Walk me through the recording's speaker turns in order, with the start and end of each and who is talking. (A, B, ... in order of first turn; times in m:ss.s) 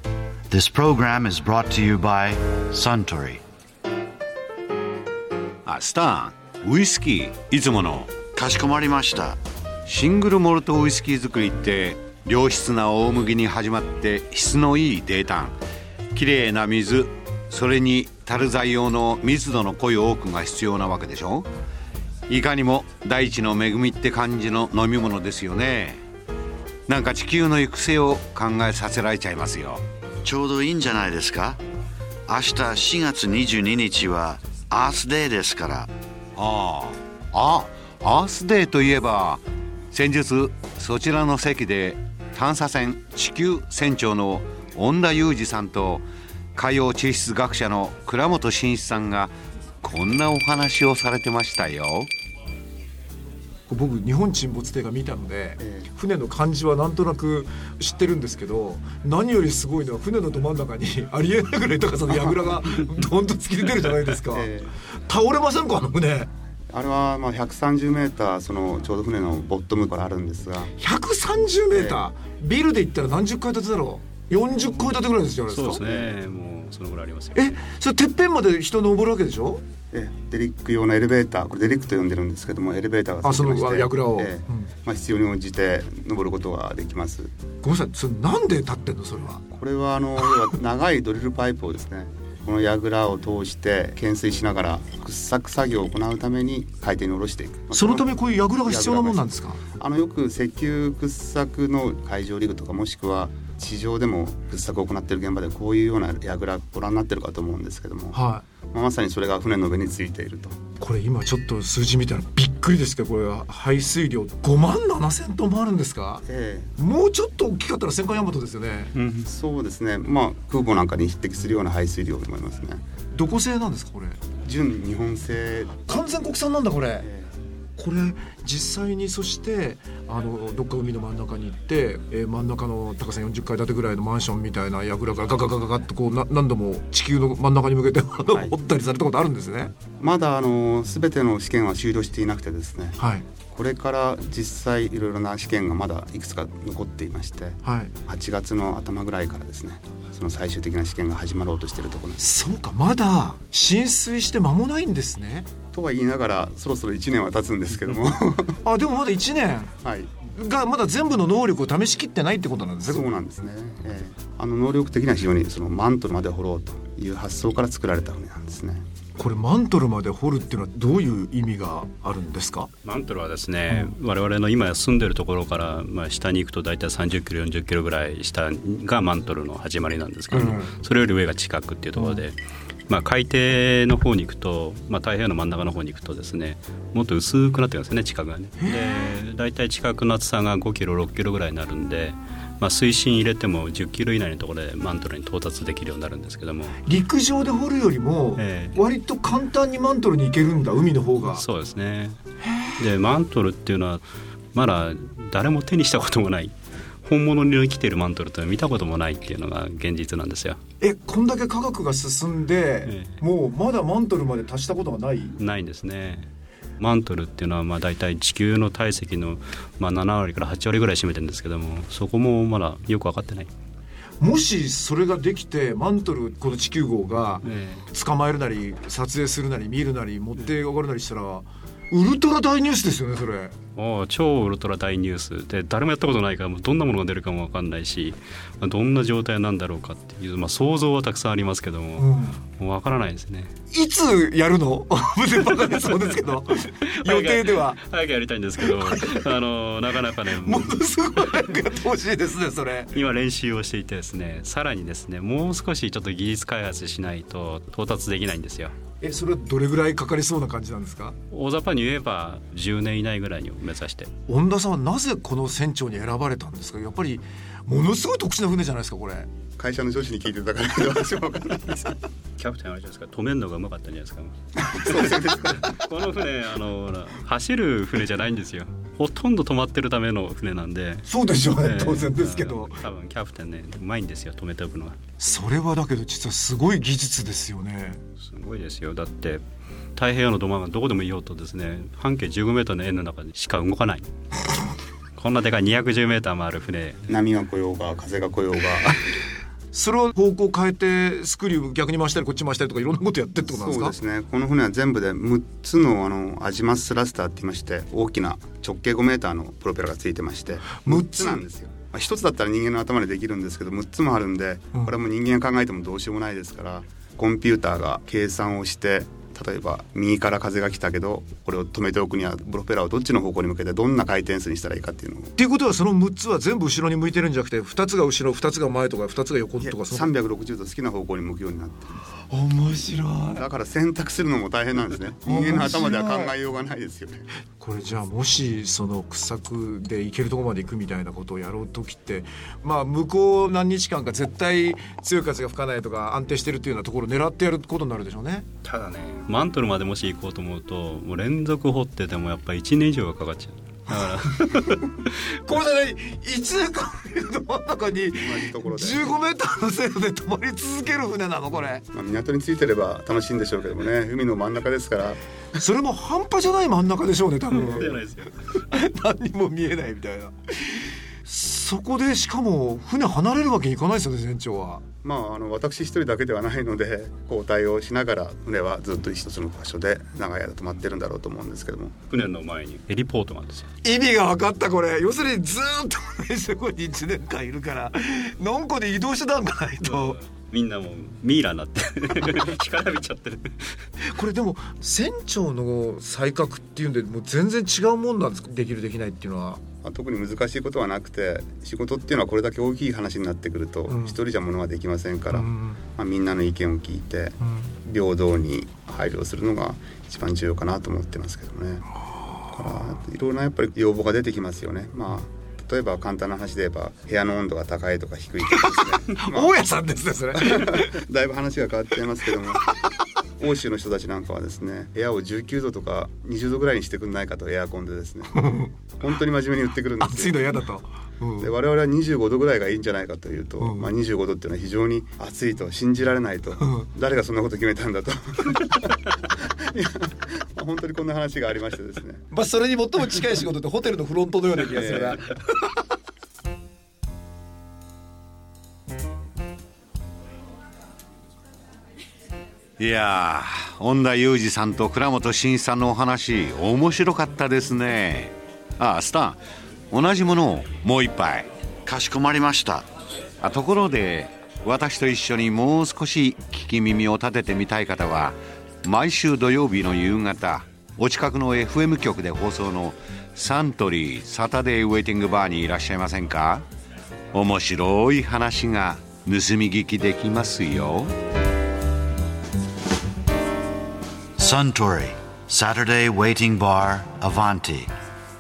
0:00.5-0:03.4 A
0:05.6-0:08.5 B
0:08.3-0:09.4 A
0:09.8-0:15.6 B
0:16.1-0:21.5 B
0:22.3-0:26.0 B
0:26.9-0:29.8 B
0:30.2-0:31.6 A
0:32.3-0:35.9 A
0:36.4-0:46.0 B
0:46.5-0:49.3 B
0:49.8-0:52.1 B
0:53.7-1:06.3 C
0:55.6-0:55.9 D
1:04.3-1:04.8 D
1:06.7-1:10.7 D
1:10.8-1:15.8 C
1:11.7-1:12.1 D
1:15.5-1:17.6 E
1:15.8-1:16.1 D
1:17.3-1:19.6 C
1:19.9-1:27.3 D
1:23.2-1:24.7 C
1:27.6-1:29.4 C
1:29.5-1:38.1 D
1:37.7-1:39.6 C
1:38.6-1:48.2 D
1:48.1-1:48.4 C
1:48.7-1:50.6 D
1:50.8-1:56.2 C
1:56.2-1:56.7 D
1:56.8-1:58.9 C
1:58.9-2:02.8 D
2:03.1-2:04.2 C
2:04.4-2:05.8 D
2:05.8-2:07.1 C
2:07.0-2:07.3 D
2:07.8-2:19.7 C
2:20.0-2:23.0 D
2:23.0-2:23.2 C
2:23.5-2:32.2 D
2:27.6-2:27.9 C
2:32.2-2:35.5 C
2:35.7-2:38.6 D
2:38.6-2:39.7 C
2:39.8-2:40.1 D
2:40.2-2:43.0 C
2:42.9-2:48.8 D
2:49.2-2:52.7 C
2:52.8-3:02.4 E
3:00.3-3:00.7 C
3:02.0-3:02.2 C
3:02.9-3:16.8 E
3:08.6-3:09.1 C
3:16.8-3:21.4 C
3:18.4-3:18.8 E
3:21.2-3:22.2 E
3:22.4-3:22.8 C
3:22.8-3:30.6 E
3:30.8-3:35.4 C
3:32.8-3:33.1 E
3:35.4-3:36.3 E
3:36.8-3:43.5 E
3:44.2-3:53.5 C
3:47.4-3:47.8 E
3:53.8-4:03.5 E
4:02.0-4:02.4 C
4:03.7-4:07.8 C
4:07.0-4:11.6 E
4:08.6-4:09.2 C
4:10.3-4:13.0 C
4:12.9-4:18.7 E
4:19.0-4:21.2 C
4:21.3-4:24.1 E
4:24.3-4:29.3 C
4:29.6-4:32.0 D
4:32.4-4:45.0 E
4:34.6-4:35.7 D
4:41.1-4:42.8 C
4:45.2-4:48.0 C
4:48.2-4:49.4 E
4:49.9-4:54.1 E
4:55.2-4:57.0 E
4:57.1-4:59.0 D
4:59.7-5:03.9 C
5:03.5-5:25.3 D
5:10.7-5:11.4 C
5:25.4-5:30.1 C
5:29.6-5:32.0 D
5:32.3-5:33.4 C
5:33.4-5:37.3 D
5:35.2-5:36.3 C
5:37.6-5:48.4 C
5:48.6-5:55.1 E
5:55.3-6:01.8 C
5:58.2-5:59.1 D
6:01.9-6:05.2 D
6:05.6-6:08.0 C
6:07.5-6:08.3 E
6:08.7-6:14.8 C
6:15.0-6:21.9 D
6:22.1-6:23.7 E
6:23.8-6:30.2 C
6:29.8-6:33.7 E
6:34.0-6:39.6 C
6:39.8-6:51.8 D
6:43.9-6:44.2 C
6:45.3-6:45.8 C
6:47.4-6:47.7 C
6:52.5-6:59.6 D
6:58.5-7:01.0 C
7:00.3-7:02.6 D
7:03.4-7:10.6 D
7:08.3-7:08.7 C
7:10.0-7:11.5 C
7:11.4-7:22.2 D
7:13.6-7:13.9 C
7:16.6-7:16.8 C
7:22.3-7:25.4 C
7:24.7-7:25.2 D
7:32.8-7:39.4 B
7:39.9-7:42.0 B
7:41.8-7:42.8 A
7:43.4-7:56.6 B
7:57.3-8:01.1 B
8:04.4-8:07.9 A